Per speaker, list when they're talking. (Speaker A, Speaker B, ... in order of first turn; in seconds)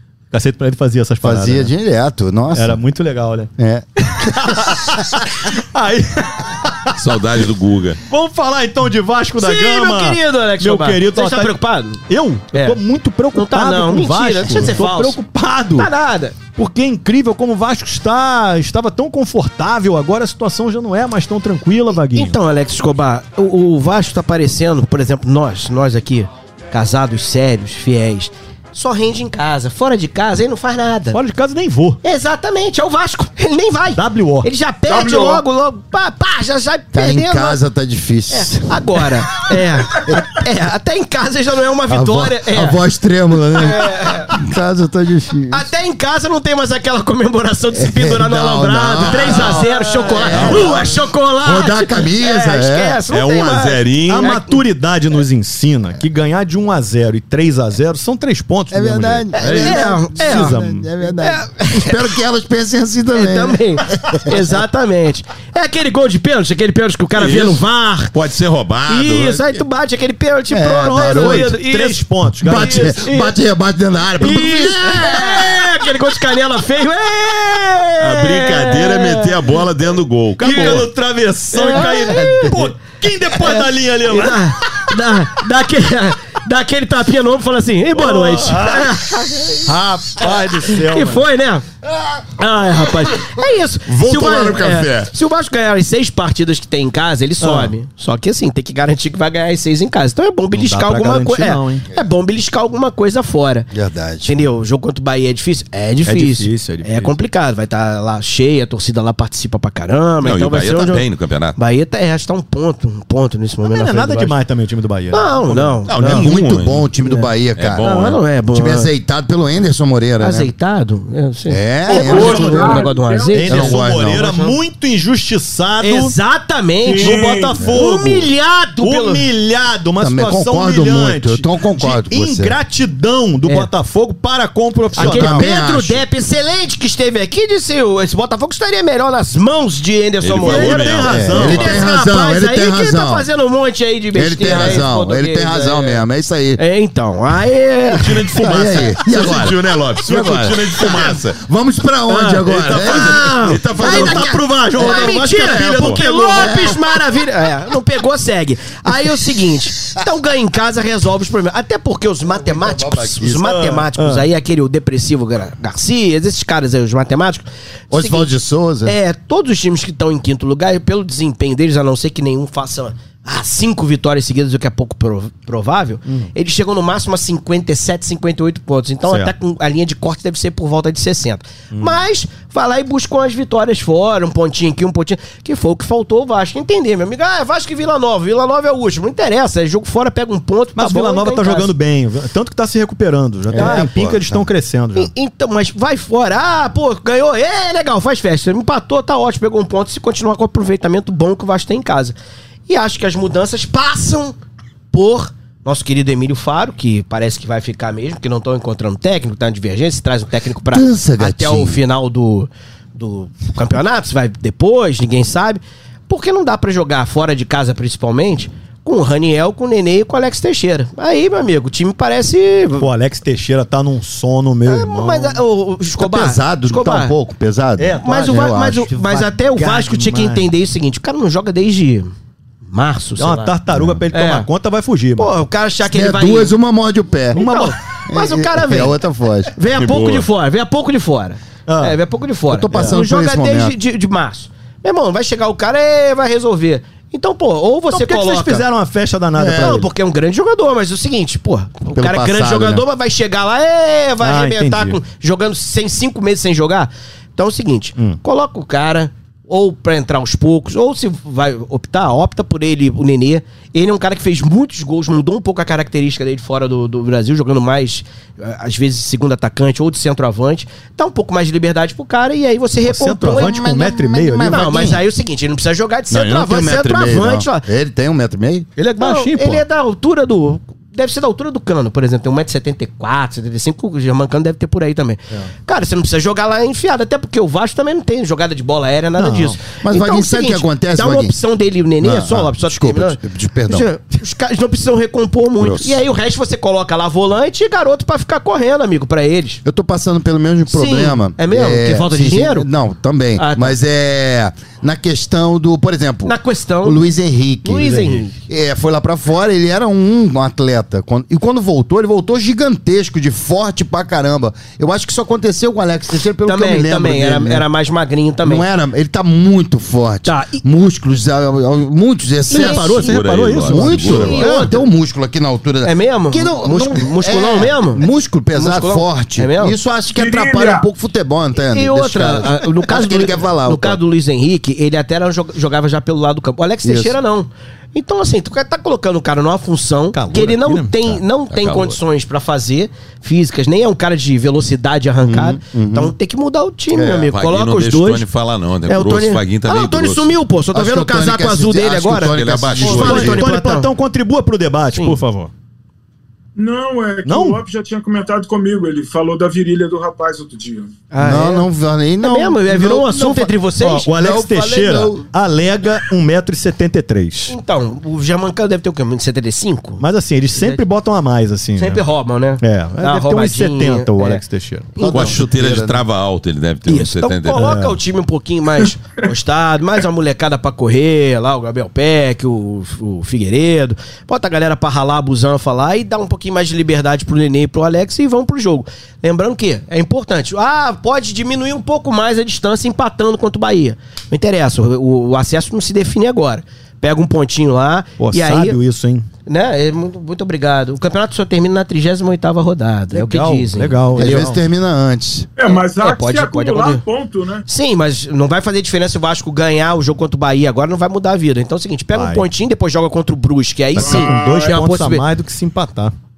Speaker A: 0.3-1.7, 2.5-3.5, 4.1-7.0, 8.1-15.9, 16.6-22.4, 31.1-32.0, 33.9-34.5, 49.4-50.5, 54.1-60.9, 70.7-73.0, 80.4-84.9, 87.9-89.1, 89.6-91.3, 97.4-97.8, 100.5-101.9, 106.0-107.2, 113.6-116.3, 123.3-126.2, 127.0-128.3, 128.8-135.5, 140.4-141.8, 153.7-156.7, 163.3-164.3, 179.1-179.3, 181.7-182.0, 190.8-195.1, 222.8-225.4, 227.8-230.5, 233.2-235.3, 237.3-237.8, 241.7-242.0, 247.9-249.9, 254.2-255.0, 272.9-274.8, 278.8-279.6, 289.2-289.6, 322.5-324.7, 340.1-341.2, 352.8-355.5, 357.2-357.6, 363.8-367.6, 370.0-372.0, 372.6-374.9, 377.5-378.0, 398.2-399.3, 403.1-404.6, 412.1-412.5, 413.9-416.1
Speaker B: 1.2-2.8, 3.6-4.9, 36.9-38.8, 41.9-45.7, 47.7-53.0, 58.7-64.6, 70.5-71.6, 72.4-75.7, 103.7-104.3, 116.0-117.9, 118.5-120.5, 121.5-122.9, 123.5-124.3, 130.0-132.6, 135.0-136.0, 141.1-143.3, 144.1-146.6, 148.4-154.2, 156.3-157.0, 162.3-163.6, 167.9-169.0, 193.5-194.4, 210.7-211.8, 226.0-228.9, 233.7-234.1, 235.8-237.5, 238.1-239.5, 242.5-243.8, 249.3-249.8, 251.9-252.8, 273.3-275.0, 276.1-278.7, 289.8-291.3, 292.0-293.9, 295.6-296.0, 299.6-317.7, 318.4-334.0, 336.8-337.2, 345.2-346.1, 346.9-347.3, 350.7-353.4, 361.2-363.5, 364.1-365.2, 375.0-376.0, 404.1-405.5
Speaker C: 7.0-8.0, 50.3-50.7, 53.1-54.3, 67.2-69.6, 78.0-80.9, 93.9-95.1, 110.2-111.6, 115.9-116.9, 117.6-118.2, 140.2-141.8, 147.9-151.4, 152.4-154.4, 155.4-156.0, 239.7-240.3, 323.0-324.4, 341.5-342.0, 347.3-350.3, 352.2-353.4, 375.1-377.6
Speaker D: 9.4-12.8, 13.3-15.2, 15.8-16.4, 22.1-31.2, 32.0-37.6, 38.3-42.8, 43.5-44.3, 45.5-54.6, 59.3-62.1, 63.1-68.1, 68.9-73.4, 74.2-79.6, 81.5-82.7, 83.3-89.7, 90.2-91.7, 92.4-103.7, 104.2-114.4, 115.1-116.3, 117.0-117.3, 117.8-118.9, 120.2-124.6, 125.8-129.3, 133.4-133.7, 135.0-146.0, 146.6-148.3, 152.1-168.3, 168.8-191.7, 193.6-193.9, 195.0-202.2, 202.7-204.3, 204.9-222.9, 224.7-227.2, 228.0-232.1, 232.7-233.6, 234.1-234.5, 235.2-236.6, 237.3-239.0, 239.6-248.7, 249.5-273.6, 274.4-277.7, 279.0-299.6, 300.7-302.7, 303.4-303.8, 306.3-307.1, 307.6-308.4, 316.4-318.7, 320.3-320.6, 322.5-323.2, 324.1-324.9, 325.8-329.8, 331.6-348.3, 348.9-353.9, 361.1-361.7, 362.2-364.4, 367.5-370.0, 370.6-370.8, 371.8-374.4, 375.0-375.4, 376.9-398.8, 399.5-404.5, 405.7-407.0, 407.7-415.2
Speaker E: 34.9-35.4, 121.9-123.7, 126.8-127.6, 330.1-330.9, 356.6-360.9, 405.6-407.6, 414.0-414.8